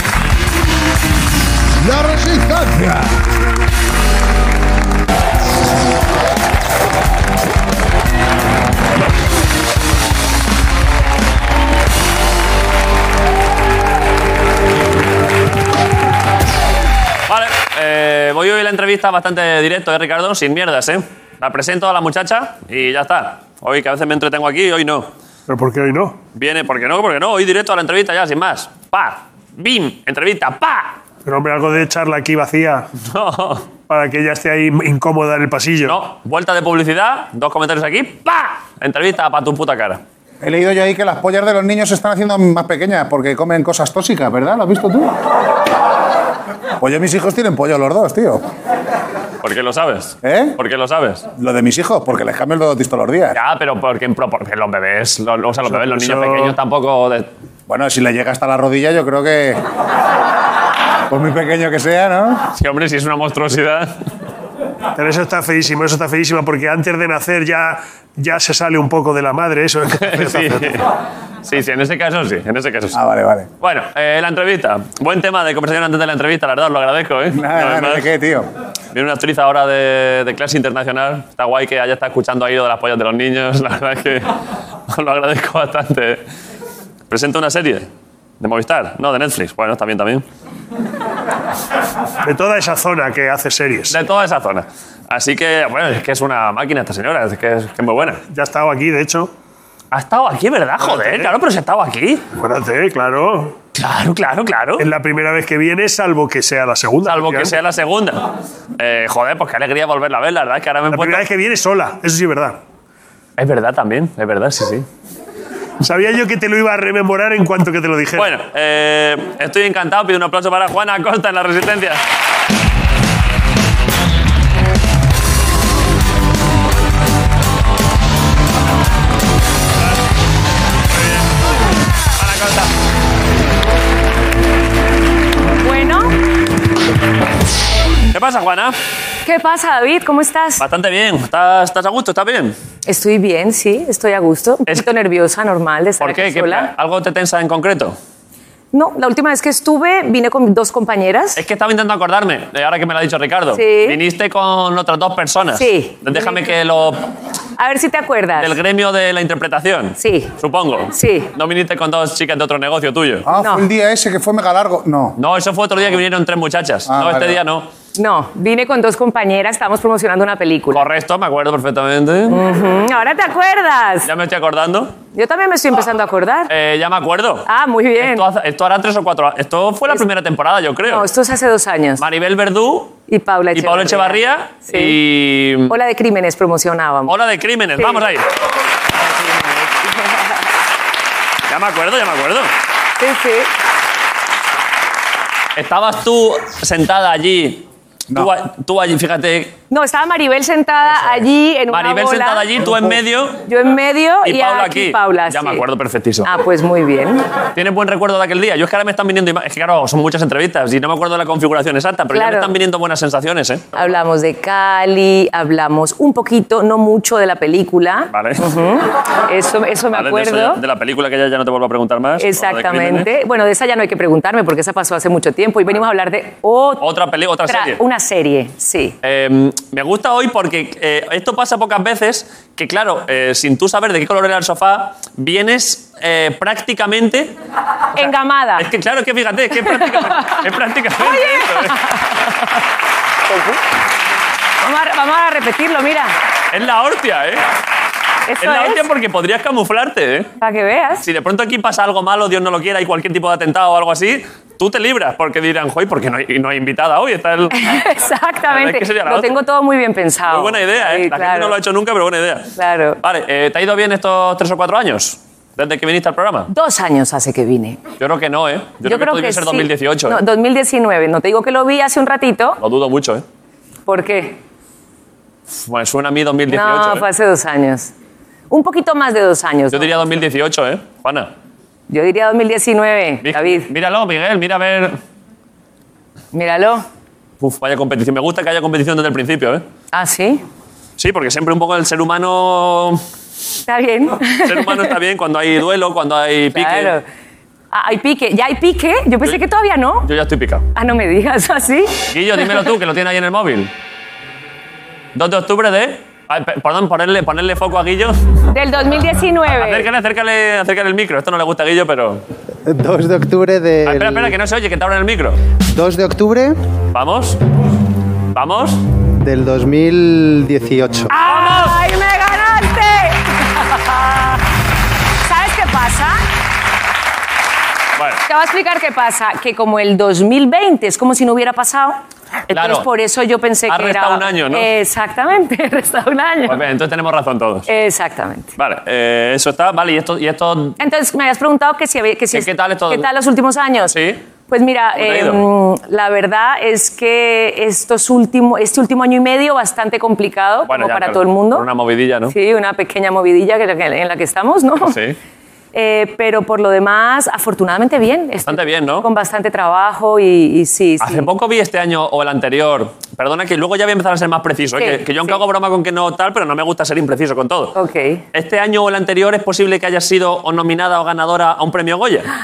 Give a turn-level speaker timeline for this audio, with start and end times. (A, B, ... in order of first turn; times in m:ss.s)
0:02.0-0:02.8 A
0:17.3-0:25.1 B
0:25.5-0:26.2 C
0:26.3-0:31.0 B
0:31.2-0:32.9 C
0:33.0-0:33.7 B
0:33.9-0:36.0 C
0:35.8-0:40.0 B
0:40.4-0:45.1 A
0:46.8-0:48.4 A
0:49.4-0:51.2 B
0:50.2-0:50.5 A
0:51.4-0:53.4 A
0:53.3-0:57.3 B
0:55.8-0:56.5 C
0:57.7-0:59.6 A
1:01.1-1:02.4 A
1:02.5-1:04.0 B
1:05.0-1:10.8 C
1:10.0-1:10.9 B
1:11.4-1:13.0 B
1:12.9-1:13.5 A
1:13.6-1:18.1 B
1:17.3-1:18.5 A
1:18.9-1:24.3 B
1:24.9-1:26.2 B
1:27.1-1:27.9 B
1:28.4-1:30.2 B
1:32.2-1:34.0 C
1:33.9-1:38.2 B
1:38.3-1:39.3 C
1:39.9-1:42.2 B
1:40.8-1:41.3 C
1:42.4-1:43.6 C
1:43.8-1:44.9 B
1:44.8-1:47.6 C
1:47.0-1:51.2 B
1:50.9-1:52.6 C
1:53.4-1:54.9 B
1:55.8-1:58.3 C
1:58.2-2:02.0 B
2:12.2-2:12.7 B
2:15.6-2:16.2 D
2:18.1-2:18.8 B
2:19.2-2:20.6 D
2:20.6-2:22.6 B
2:22.8-2:26.7 D
2:26.0-2:28.0 B
2:28.7-2:31.4 D
2:31.4-2:37.0 B
2:33.5-2:34.0 D
2:35.6-2:36.5 D
2:37.6-2:38.6 D
2:38.4-2:43.2 B
2:40.0-2:40.3 D
2:40.9-2:41.3 D
2:43.2-2:45.1 A
2:43.4-2:43.6 D
2:45.2-2:47.7 B
2:46.9-2:47.4 A
2:48.0-2:50.8 D
2:50.7-2:52.4 B
2:52.3-2:54.1 D
2:54.0-2:54.9 B
2:55.1-2:56.5 D
2:56.5-2:57.5 B
2:57.5-2:58.3 D
2:58.0-3:01.1 B
3:00.8-3:02.0 D
3:02.0-3:03.0 B
3:03.1-3:05.0 D
3:03.5-3:05.7 B
3:05.7-3:07.1 D
3:07.1-3:08.2 B
3:07.8-3:08.0 D
3:09.2-3:10.4 D
3:11.5-3:12.5 B
3:13.0-3:13.5 D
3:15.6-3:19.5 B
3:19.7-3:22.7 D
3:21.7-3:23.4 B
3:23.4-3:25.6 D
3:24.2-3:26.3 B
3:26.2-3:27.2 D
3:27.5-3:33.7 B
3:32.1-3:32.5 D
3:33.7-3:40.6 D
3:38.1-3:38.4 B
3:39.9-3:43.1 B
3:42.2-3:46.8 D
3:46.8-3:47.8 B
3:47.4-3:49.0 D
3:49.0-3:57.3 B
3:58.0-3:58.7 D
3:58.0-4:01.8 B
3:59.7-4:00.4 D
4:01.0-4:02.4 D
4:03.3-4:03.6 D
4:04.6-4:06.1 D
4:06.5-4:07.4 B
4:08.3-4:08.8 D
4:08.4-4:10.3 B
4:10.4-4:11.0 D
4:11.0-4:17.8 B
4:17.5-4:21.6 D
4:18.5-4:19.4 B
4:20.3-4:26.5 B
4:22.6-4:23.0 D
4:26.5-4:27.8 D
4:28.0-4:30.2 B
4:28.8-4:32.6 D
4:32.6-4:33.2 B
4:33.9-4:34.4 D
4:35.5-4:37.0 B
4:36.5-4:37.9 D
4:38.5-4:39.9 D
4:39.7-4:41.3 B
4:41.9-4:43.7 D
4:43.2-4:45.0 B
4:46.3-4:46.8 D
4:47.4-4:49.6 B
4:49.9-4:50.4 D
4:51.0-4:53.0 B
4:53.7-4:55.0 D
4:54.4-4:56.9 B
4:56.5-4:57.0 D
4:57.7-5:00.1 D
5:00.0-5:00.6 B
5:00.7-5:02.5 D
5:02.1-5:03.7 B
5:05.1-5:08.2 B
5:08.5-5:09.9 D
5:09.5-5:12.2 B
5:12.6-5:14.4 E
5:13.8-5:15.4 B
5:15.7-5:16.6 E
5:16.9-5:17.4 B
5:18.3-5:18.8 B
5:19.2-5:21.1 E
5:21.1-5:24.4 D
5:21.2-5:21.8 B
5:25.2-5:26.2 D
5:28.0-5:28.2 B
5:28.3-5:32.0 D
5:32.5-5:32.9 B
5:32.5-5:36.6 D
5:33.7-5:34.7 B
5:36.4-5:37.7 B
5:37.7-5:38.5 D
5:38.6-5:40.8 B
5:40.8-5:43.9 D
5:42.3-5:43.1 B
5:43.9-5:44.2 B
5:44.5-5:51.6 D
5:45.0-5:45.4 B
5:50.7-5:52.3 B
5:52.3-5:55.0 D
5:54.8-5:55.2 B
5:55.7-6:01.3 D
5:58.4-5:59.0 B
6:01.0-6:07.7 B
6:04.8-6:05.4 D
6:07.7-6:08.2 D
6:08.3-6:12.3 B